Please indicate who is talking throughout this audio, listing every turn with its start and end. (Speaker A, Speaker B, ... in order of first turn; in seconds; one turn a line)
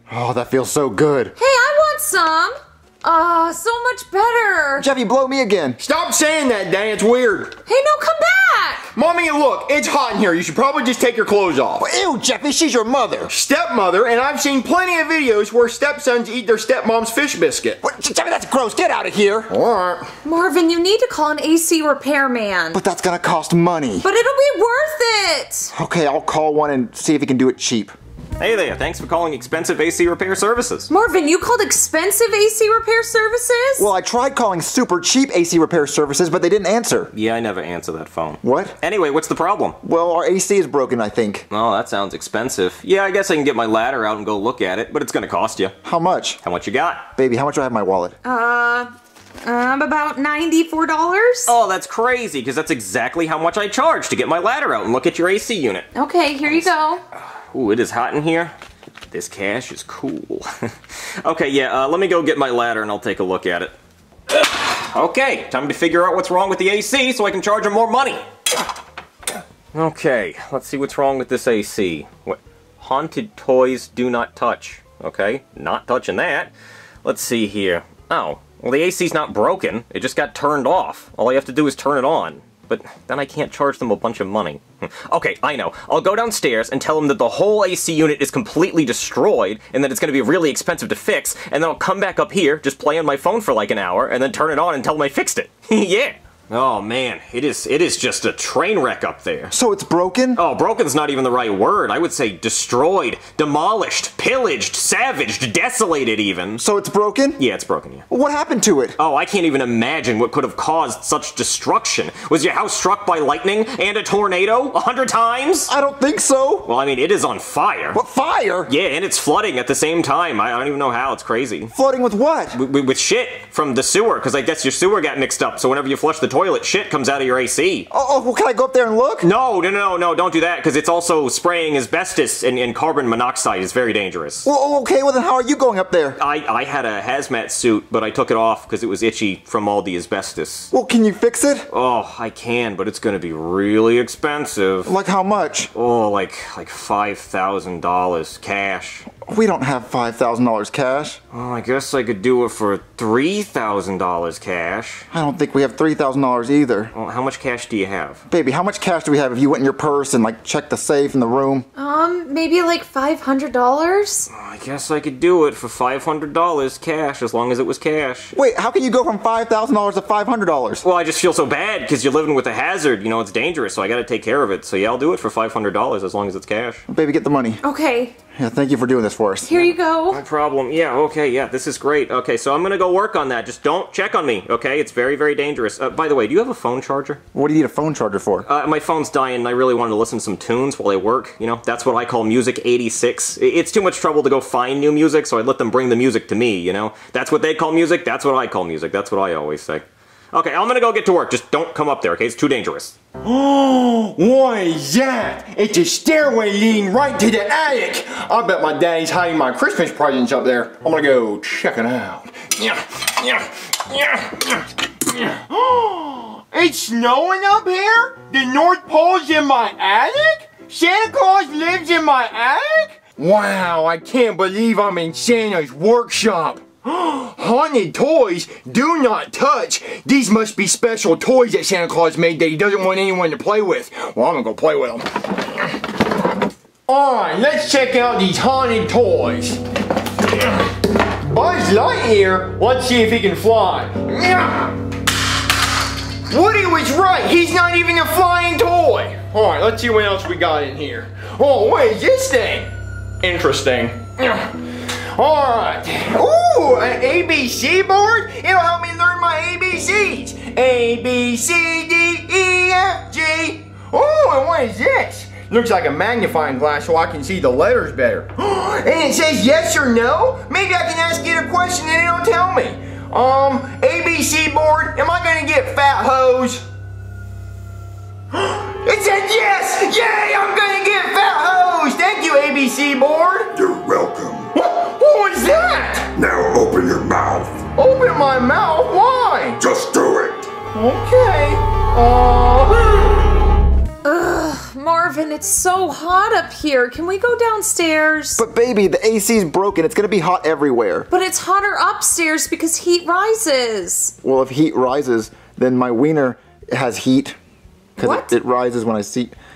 Speaker A: 0.1-1.4
Speaker B: 1.4-4.9
Speaker A: 4.8-5.8
Speaker C: 5.8-7.5
Speaker B: 7.7-8.9
Speaker C: 8.9-11.8
Speaker A: 11.8-13.3
Speaker C: 13.3-17.8
Speaker A: 17.8-19.5
Speaker C: 19.5-20.1
Speaker B: 20.2-22.8
Speaker A: 22.7-24.1
Speaker B: 24.0-25.7
Speaker A: 25.7-27.9
Speaker D: 28.4-30.9
Speaker B: 30.9-33.9
Speaker A: 33.8-37.1
Speaker D: 37.1-39.8
Speaker A: 38.4-38.8
Speaker A: 39.8-41.5
Speaker D: 41.5-45.7
Speaker A: 45.8-46.4
Speaker D: 46.4-47.1
Speaker A: 47.2-48.2
Speaker B: 48.2-48.9
Speaker B: 49.4-51.5
Speaker D: 51.5-55.9
Speaker B: 55.9-57.0
Speaker D: 57.5-58.5
Speaker D: 59.1-60.7
Speaker D: 61.2-63.7
Speaker D: 64.3-68.2
Speaker D: 69.7-76.5
Speaker D: 77.0-99.5
Speaker A: 99.5-100.4
Speaker D: 100.4-106.6
Speaker A: 106.6-107.4
Speaker D: 107.4-108.0
Speaker A: 108.1-109.0
Speaker D: 109.0-115.7
Speaker A: 115.7-116.7
Speaker D: 116.7-118.0
Speaker A: 117.9-118.7
Speaker D: 118.7-121.7
Speaker A: 121.7-122.6
Speaker D: 122.5-127.9
Speaker A: 127.9-129.3
Speaker D: 129.2-134.5
Speaker A: 134.4-136.2
Speaker D: 136.2-140.7
Speaker A: 140.7-141.7
Speaker D: 141.7-144.9
Speaker A: 144.8-145.7
Speaker D: 145.7-149.1
Speaker A: 149.2-151.2
Speaker D: 151.3-155.0
Speaker A: 155.1-156.9
Speaker D: 156.9-158.2
Speaker A: 158.3-161.7
Speaker B: 161.8-164.3
Speaker D: 164.3-168.3
Speaker A: 168.3-170.8
Speaker D: 170.8-176.8
Speaker A: 176.9-177.6
Speaker B: 177.6-178.1
Speaker A: 178.4-179.5
Speaker B: 179.5-180.2
Speaker D: 179.5-187.2
Speaker A: 187.3-188.5
Speaker D: 188.4-202.9
Speaker C: 203.2-235.0
Speaker C: 236.9-239.6
Speaker C: 240.3-244.7
Speaker C: 246.3-252.7
Speaker C: 253.2-276.6
Speaker C: 278.3-283.5
Speaker E: 283.5-284.5
Speaker C: 284.5-286.1
Speaker E: 286.1-287.6
Speaker C: 287.8-289.6
Speaker E: 289.6-290.6
Speaker C: 290.7-293.2
Speaker B: 294.0-298.4
Speaker A: 298.4-301.1
Speaker B: 301.1-304.1
Speaker A: 304.2-307.4
Speaker A: 308.0-309.3
Speaker B: 308.0-308.3